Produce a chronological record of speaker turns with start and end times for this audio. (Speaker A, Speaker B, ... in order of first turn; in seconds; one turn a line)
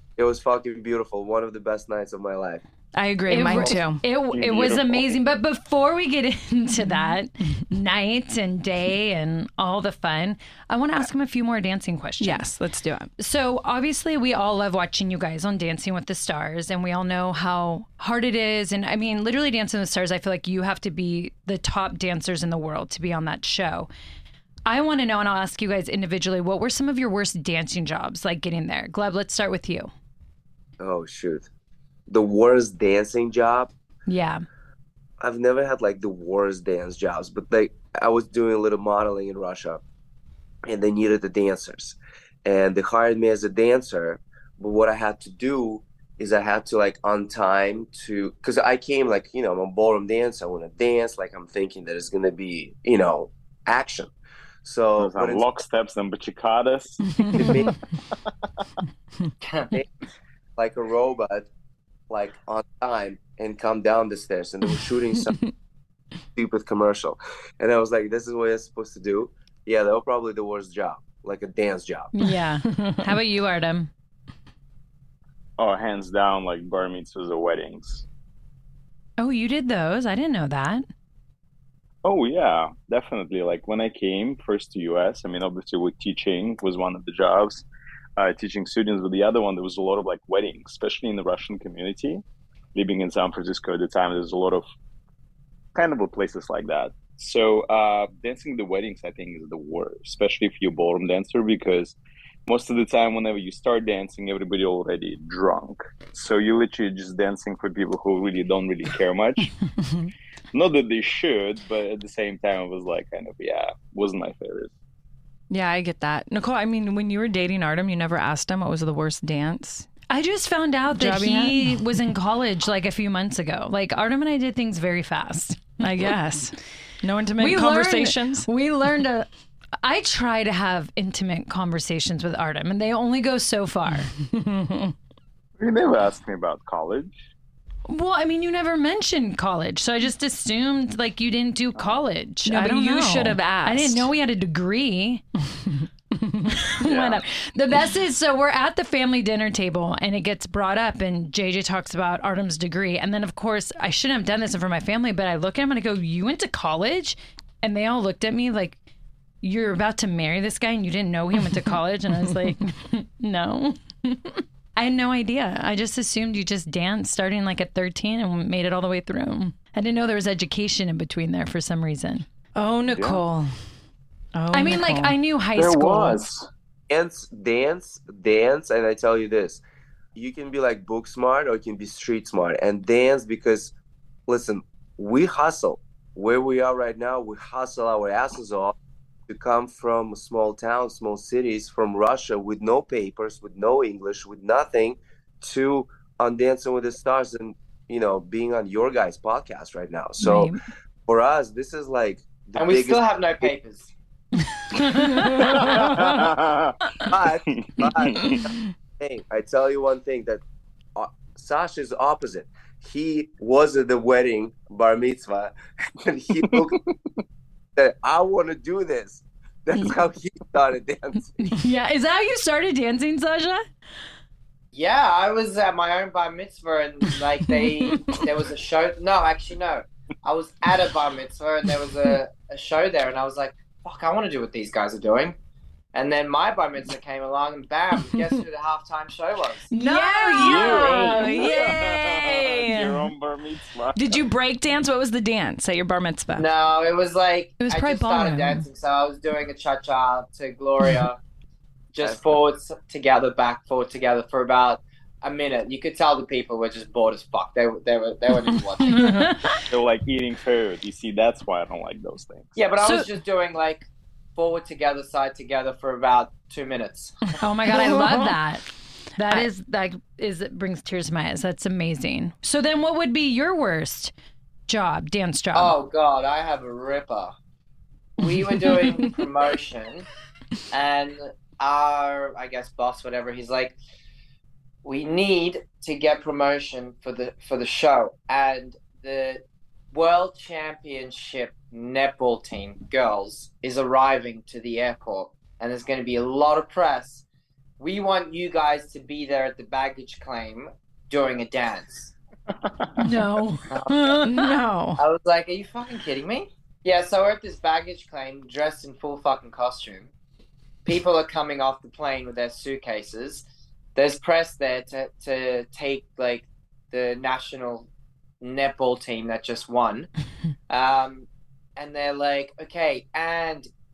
Speaker A: 0.2-2.6
Speaker B: 2.9-4.0
Speaker C: 3.3-12.4
Speaker D: 4.3-5.2
Speaker B: 12.2-13.1
Speaker C: 13.2-23.9
Speaker C: 24.7-29.9
Speaker A: 30.8-31.5
Speaker A: 32.1-33.7
Speaker C: 34.1-34.4
Speaker A: 35.2-39.8
Speaker A: 40.6-54.1
Speaker A: 54.6-55.5
Speaker D: 55.0-57.6
Speaker A: 57.4-57.7
Speaker E: 59.4-59.7
Speaker A: 60.6-61.5
Speaker A: 62.1-65.3
Speaker B: 65.2-65.5
Speaker A: 66.3-72.1
Speaker C: 72.2-73.9
Speaker D: 75.6-78.0
Speaker C: 79.2-80.8
Speaker D: 82.0-87.6
Speaker D: 88.2-92.2
Speaker D: 92.7-94.6
Speaker D: 95.7-109.6
Speaker D: 110.5-114.7
Speaker B: 115.5-119.9
Speaker C: 120.1-125.8
Speaker B: 120.9-121.7
Speaker B: 125.8-128.5
Speaker C: 127.4-129.3
Speaker C: 129.8-134.1
Speaker B: 134.0-134.9
Speaker D: 135.6-137.2
Speaker C: 137.9-145.2
Speaker D: 141.7-142.0
Speaker B: 142.4-144.1
Speaker C: 146.6-158.8
Speaker D: 146.8-147.2
Speaker C: 159.4-172.2
Speaker B: 172.5-173.5
Speaker D: 172.9-173.2
Speaker B: 174.3-175.1
Speaker C: 174.5-176.3
Speaker D: 175.5-176.5
Speaker A: 176.9-179.6
Speaker A: 180.1-183.7
Speaker A: 184.3-188.7
Speaker A: 189.3-200.5
Speaker C: 200.2-200.6
Speaker A: 201.1-203.5
Speaker E: 202.6-203.9
Speaker C: 204.7-205.7
Speaker B: 204.9-205.4
Speaker D: 205.4-206.8
Speaker A: 207.1-208.4
Speaker D: 207.5-208.4
Speaker A: 209.0-210.4
Speaker A: 210.9-216.8
Speaker D: 216.4-216.9
Speaker A: 217.8-221.5
Speaker C: 221.4-223.6
Speaker E: 224.7-235.3
Speaker B: 227.6-228.2
Speaker E: 235.9-239.7
Speaker C: 239.7-241.8
Speaker B: 239.7-243.1
Speaker D: 240.4-244.2
Speaker B: 243.9-246.5
Speaker E: 246.3-251.2
Speaker C: 247.6-248.6
Speaker E: 251.9-259.1
Speaker A: 252.0-252.3
Speaker C: 258.9-259.6
Speaker D: 259.7-262.6
Speaker E: 262.6-267.3
Speaker C: 262.8-263.1
Speaker C: 267.4-268.6
Speaker B: 267.7-268.4
Speaker C: 269.1-274.1
Speaker C: 274.7-275.7
Speaker E: 275.5-277.3
Speaker E: 278.2-280.1
Speaker B: 278.2-279.2
Speaker E: 280.7-283.8
Speaker E: 284.8-297.2
Speaker E: 297.8-302.1
Speaker C: 303.0-304.4
Speaker E: 303.7-304.2
Speaker B: 304.2-305.0
Speaker E: 305.0-310.1
Speaker E: 310.8-313.4
Speaker E: 313.9-317.9
Speaker E: 318.4-320.1
Speaker E: 320.7-323.7